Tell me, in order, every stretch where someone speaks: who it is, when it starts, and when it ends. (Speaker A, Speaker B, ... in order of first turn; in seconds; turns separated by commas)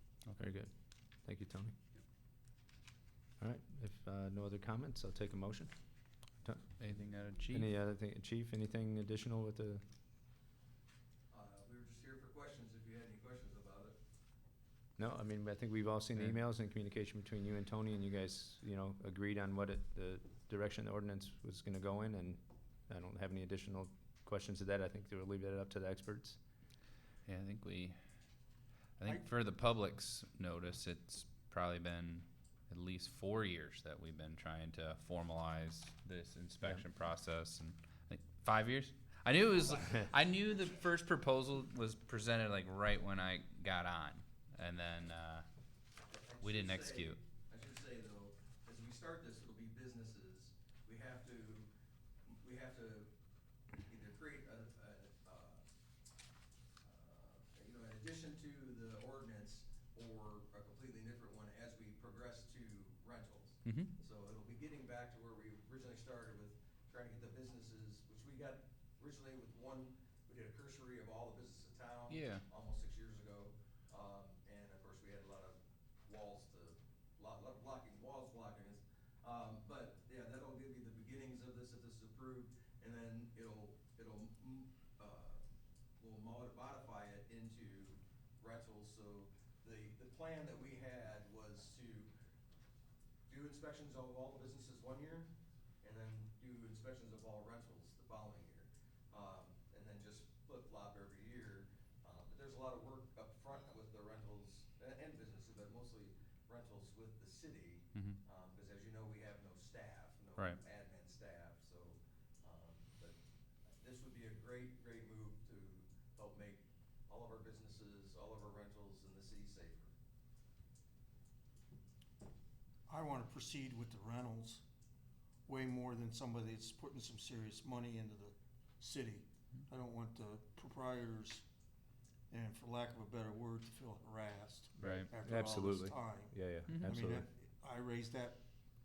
Speaker A: 0.4-0.7, Speaker A: 1.2-1.8, Speaker A: 3.4-5.7, Speaker B: 6.8-7.7, Speaker A: 7.5-9.8, Speaker C: 11.3-14.0, Speaker A: 15.0-26.4, Speaker B: 27.3-28.0, Speaker B: 29.0-45.5, Speaker C: 46.1-51.7, Speaker B: 46.4-47.2, Speaker C: 52.3-53.1, Speaker C: 53.8-55.6, Speaker C: 56.8-85.4, Speaker B: 63.6-63.9, Speaker B: 72.1-72.4, Speaker C: 86.0-92.1, Speaker C: 93.3-95.3, Speaker C: 95.8-113.2, Speaker C: 113.8-119.9, Speaker D: 122.9-124.6, Speaker D: 125.5-131.4, Speaker D: 132.3-138.4, Speaker B: 134.8-135.1, Speaker A: 134.8-137.2